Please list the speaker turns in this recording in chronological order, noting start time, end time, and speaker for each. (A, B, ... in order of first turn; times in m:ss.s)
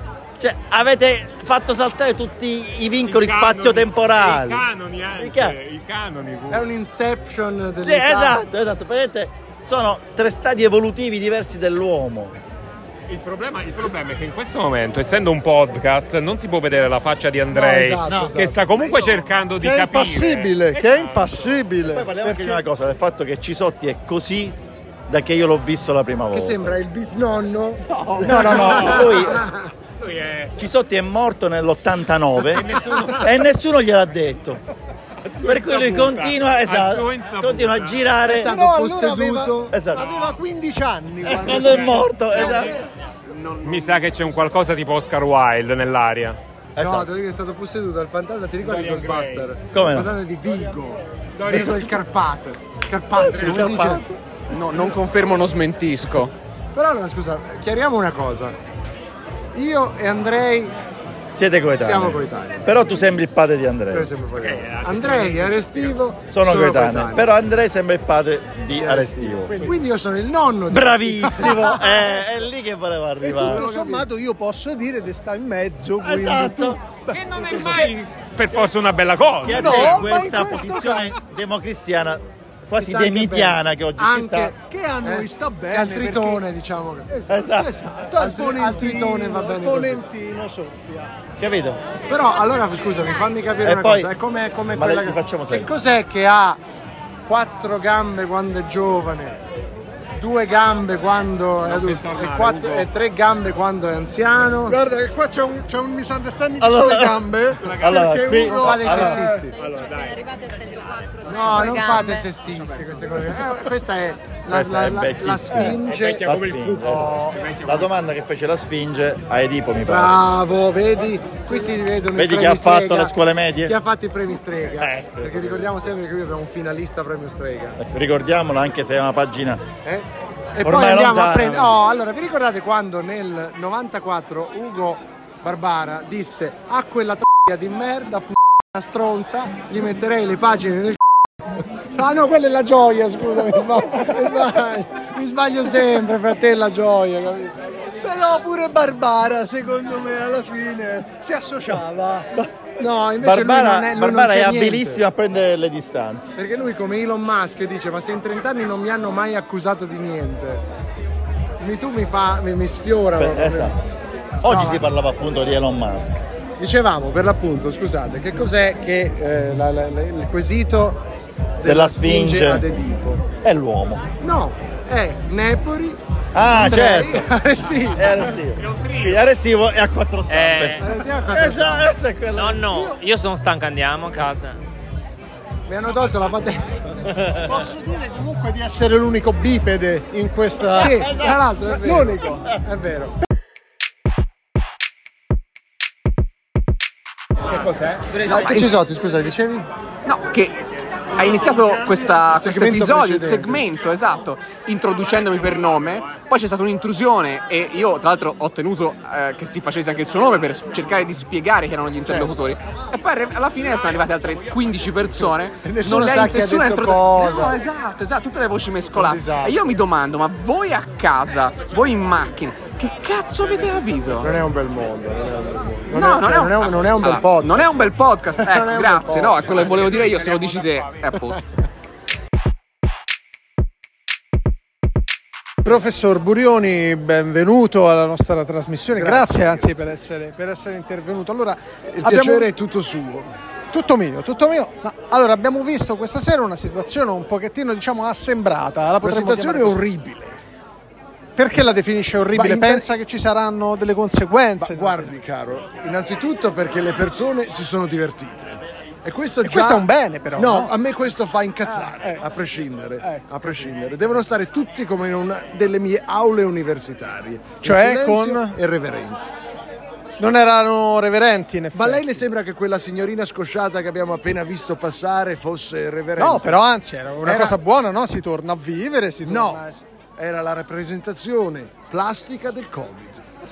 0:00.4-0:04.6 A
0:03.0-0:06.7 B
0:05.2-0:05.6 A
0:06.5-0:08.4 C
0:07.8-0:12.4 A
0:13.1-0:21.4 B
0:17.5-0:19.2 C
0:19.6-0:22.6 D
0:21.8-0:24.6 A
0:25.1-0:26.8 A
0:26.3-0:29.6 C
0:28.1-0:29.4 B
0:28.1-0:29.4 A
0:30.0-0:30.5 B
0:30.6-0:32.7 A
0:32.4-0:33.3 B
0:33.2-0:34.6 A
0:35.2-0:38.2 B
0:35.4-0:38.6 A
0:38.2-0:39.8 C
0:38.4-0:42.9 D
0:39.7-0:40.0 A
0:41.3-0:42.8 A
0:41.7-0:42.8 B
0:43.3-0:46.4 B
0:46.8-0:47.1 A
0:46.8-0:54.2 C
0:48.6-0:49.5 B
0:49.7-0:50.1 A
0:51.4-0:51.9 B
0:53.1-0:54.0 A
0:54.5-0:56.3 E
0:56.7-0:58.6 C
0:59.5-1:00.8 C
1:01.3-1:04.1 A
1:01.7-1:02.8 C
1:03.9-1:07.3 C
1:04.4-1:06.0 B
1:06.3-1:09.5 A
1:08.7-1:12.1 C
1:10.7-1:13.6 A
1:13.2-1:17.6 D
1:16.0-1:16.8 A
1:17.1-1:20.1 B
1:17.6-1:17.8 C
1:19.4-1:24.5 A
1:19.5-1:21.1 D
1:22.8-1:27.2 C
1:24.6-1:26.4 D
1:27.1-1:31.1 D
1:27.3-1:27.7 A
1:28.1-1:30.0 C
1:31.4-1:31.8 A
1:32.1-1:36.6 C
1:33.6-1:34.1 A
1:34.7-1:35.7 A
1:37.3-1:39.4 C
1:40.2-1:44.8 C
1:41.7-1:42.9 B
1:44.7-1:49.4 D
1:46.6-1:49.2 A
1:47.6-1:48.4 B
1:48.4-1:49.6 C
1:49.5-1:50.3 B
1:51.2-1:57.5 C
1:51.6-1:52.2 D
1:54.5-2:00.2 A
1:55.8-1:57.9 B
1:59.8-2:07.8 C
2:02.1-2:03.7 A
2:04.8-2:05.8 A
2:07.8-2:09.6 A
2:09.8-2:27.5 C
2:10.6-2:11.8 A
2:28.0-2:32.3 D
2:32.8-2:35.0 C
2:33.2-2:36.3 A
2:36.4-2:40.6 C
2:41.6-2:43.8 C
2:43.2-2:43.8 A
2:44.4-2:46.2 A
2:44.5-2:44.9 C
2:46.6-2:51.0 C
2:51.6-2:53.3 C
2:51.6-2:52.6 A
2:53.4-2:54.1 A
2:54.2-2:58.3 C
2:56.3-2:57.2 A
2:58.0-3:02.8 A
2:58.6-2:59.2 B
3:00.3-3:00.8 F
3:00.8-3:02.0 C
3:02.3-3:04.6 F
3:02.7-3:03.0 D
3:05.6-3:06.9 C
3:07.4-3:11.0 D
3:10.7-3:13.1 C
3:11.0-3:11.5 A
3:11.7-3:12.4 D
3:12.3-3:12.6 A
3:18.3-3:19.7 C
3:18.3-3:18.6 E
3:20.1-3:20.5 E
3:21.2-3:44.3 E
3:22.4-3:23.7 C
3:32.1-3:32.4 C
3:35.6-3:37.6 C
3:38.9-3:39.6 C
3:44.2-3:50.0 C
3:46.0-3:51.5 E
3:50.0-3:51.1 F
3:55.6-4:02.5 D
3:58.9-3:59.9 C
4:01.9-4:03.3 C
4:03.7-4:09.8 D
4:09.0-4:10.4 C
4:11.4-4:15.1 D
4:12.3-4:12.9 C
4:14.6-4:29.3 C
4:19.4-4:20.7 D
4:21.7-4:22.2 D
4:23.0-4:23.6 D
4:27.6-4:28.6 D
4:30.2-4:32.2 D
4:31.7-4:36.6 C
4:36.2-4:39.8 D
4:37.2-4:37.6 C
4:39.2-4:39.6 C
4:40.2-4:43.2 C